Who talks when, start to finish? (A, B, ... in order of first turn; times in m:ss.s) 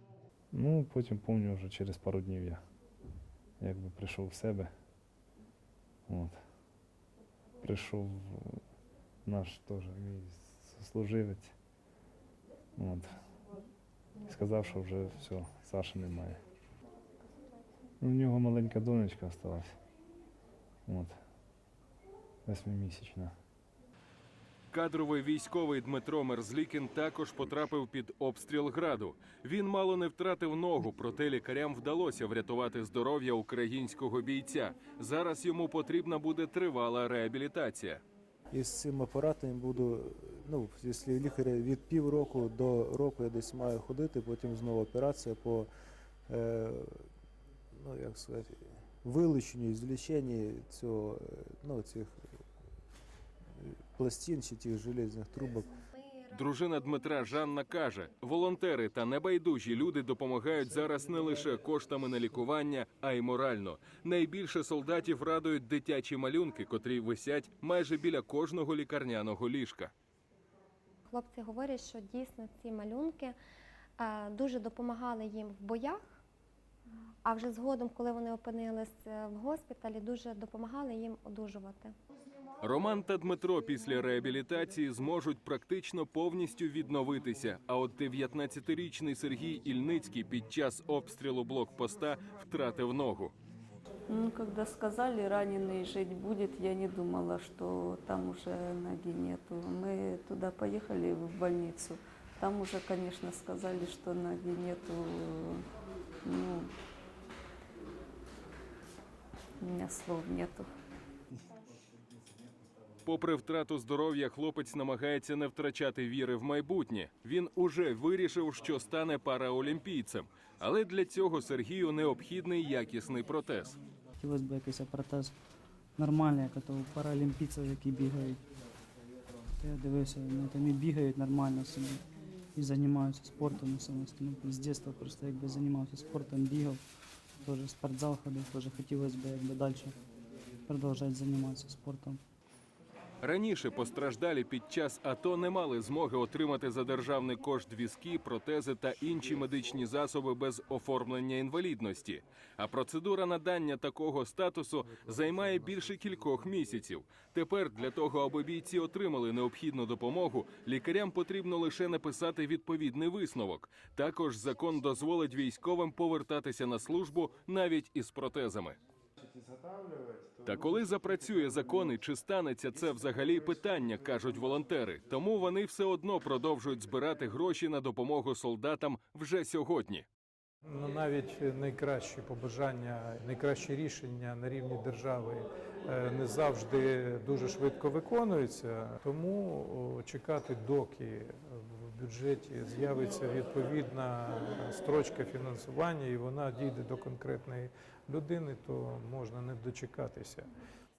0:00.5-0:02.6 A
0:03.6-0:04.7 A
0:06.1-0:06.4 A
0:07.6-0:08.6 A
0:09.2-0:11.5 A
0:12.8-0:13.2 A
0:14.2-0:16.4 A
0:18.0-0:19.7 A
0:20.9-0:21.2 A
0:22.4-0:23.3 A
0:24.7-0:38.0 B
0:38.5-0:45.7 C
0:46.3-0:47.1 C
0:47.7-0:52.2 C
0:53.6-0:55.7 C
0:56.3-1:09.9 B
1:11.2-1:13.3 D
1:14.0-1:16.0 D
1:17.2-1:21.9 D
1:22.6-1:33.3 B
1:34.1-1:45.6 E
1:46.2-1:46.7 E
1:49.6-1:50.7 E
1:53.0-2:03.8 B
2:04.2-2:05.3 F
2:06.0-2:08.4 F
2:09.6-2:12.0 F
2:12.6-2:16.8 F
2:17.4-2:20.0 F
2:20.7-2:22.2 F
2:23.2-2:48.8 B
2:50.4-3:00.0 B
3:00.7-3:20.5 G